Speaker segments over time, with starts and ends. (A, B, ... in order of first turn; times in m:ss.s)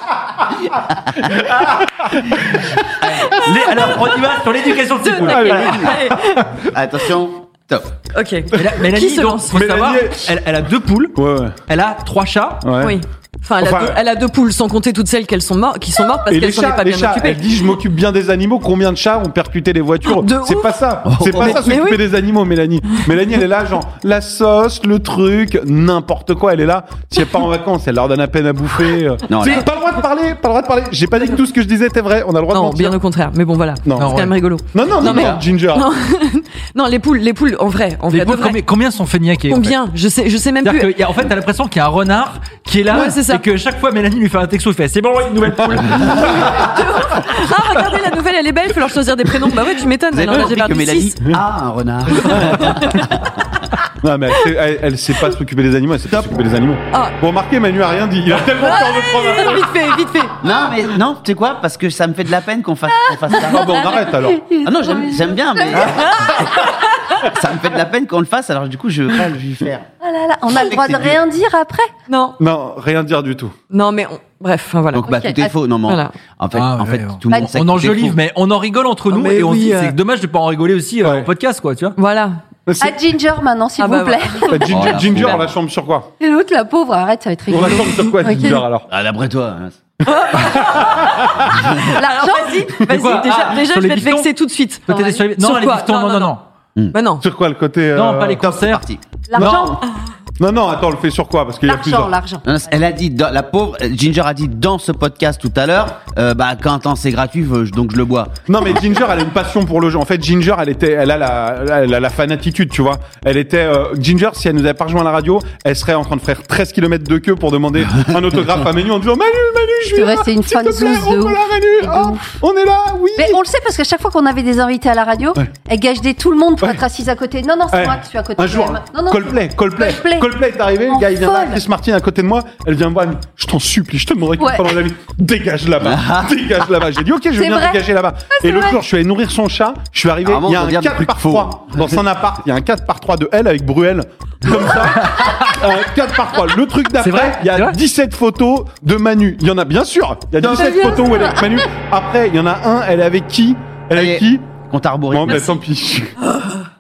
0:01.2-0:02.6 A
0:03.0-0:03.8 B
0:03.3-0:06.0 C
0:05.0-0:06.4 D
0:05.2-0:06.4 A
0:06.7-0:08.0 B
0:08.1-0:09.9 D
0:08.5-0:12.6 C
0:09.5-0:10.4 A
0:11.1-0:11.6 A
0:12.6-0:13.0 A
0:12.8-0:17.4 D
0:13.6-0:14.0 A
0:16.3-0:33.0 A
0:20.0-0:20.8 D
0:21.0-0:21.7 B
0:21.4-0:22.0 D
0:29.3-0:29.7 B
0:32.5-0:38.6 D
0:33.8-0:35.9 A
0:34.0-0:34.4 C
0:35.0-0:35.4 B
0:38.1-0:39.8 C
0:39.5-0:40.9 D
0:40.6-0:46.7 C
0:42.9-0:43.4 D
0:46.2-0:51.2 D
0:50.1-0:53.3 B
0:52.4-0:53.2 D
0:54.0-0:59.7 A
0:56.1-0:56.4 B
0:58.6-1:00.4 D
1:00.4-1:03.8 B
1:03.0-1:06.4 E
1:03.4-1:04.4 A
1:04.6-1:06.7 B
1:05.8-1:07.3 D
1:07.2-1:09.9 B
1:10.0-1:11.9 E
1:10.5-1:11.2 B
1:12.1-1:12.4 D
1:12.4-1:13.5 A
1:13.7-1:15.2 D
1:14.9-1:18.2 B
1:15.1-1:15.5 E
1:15.9-1:16.1 D
1:16.5-1:22.0 C
1:19.1-1:19.9 D
1:21.0-1:21.3 A
1:22.0-1:22.4 D
1:22.7-1:23.0 A
1:22.8-1:24.9 E
1:23.8-1:25.3 D
1:24.5-1:26.1 A
1:24.7-1:25.5 B
1:26.2-1:28.6 E
1:27.5-1:28.9 A
1:28.9-1:29.8 B
1:30.0-1:36.4 D
1:30.3-1:31.8 A
1:31.4-1:31.7 B
1:31.9-1:32.7 E
1:32.9-1:34.3 C
1:34.9-1:36.4 C
1:34.9-1:35.2 E
1:36.9-1:37.3 D
1:37.2-1:38.6 A
1:37.9-1:38.8 C
1:38.4-1:39.6 B
1:39.3-1:39.8 E
1:39.4-1:39.8 A
1:40.4-1:42.2 A
1:41.6-1:42.4 E
1:42.4-1:49.0 B
1:48.5-2:03.4 A
1:59.9-2:02.4 E
2:03.2-2:10.3 E
2:07.7-2:36.2 A
2:10.9-2:11.6 E
2:14.4-2:14.7 E
2:15.8-2:16.3 B
2:17.4-2:18.8 E
2:20.2-2:22.1 B
2:25.0-2:25.4 C
2:27.0-2:27.8 C
2:30.4-2:31.6 E
2:33.9-2:35.6 B
2:36.2-2:36.6 D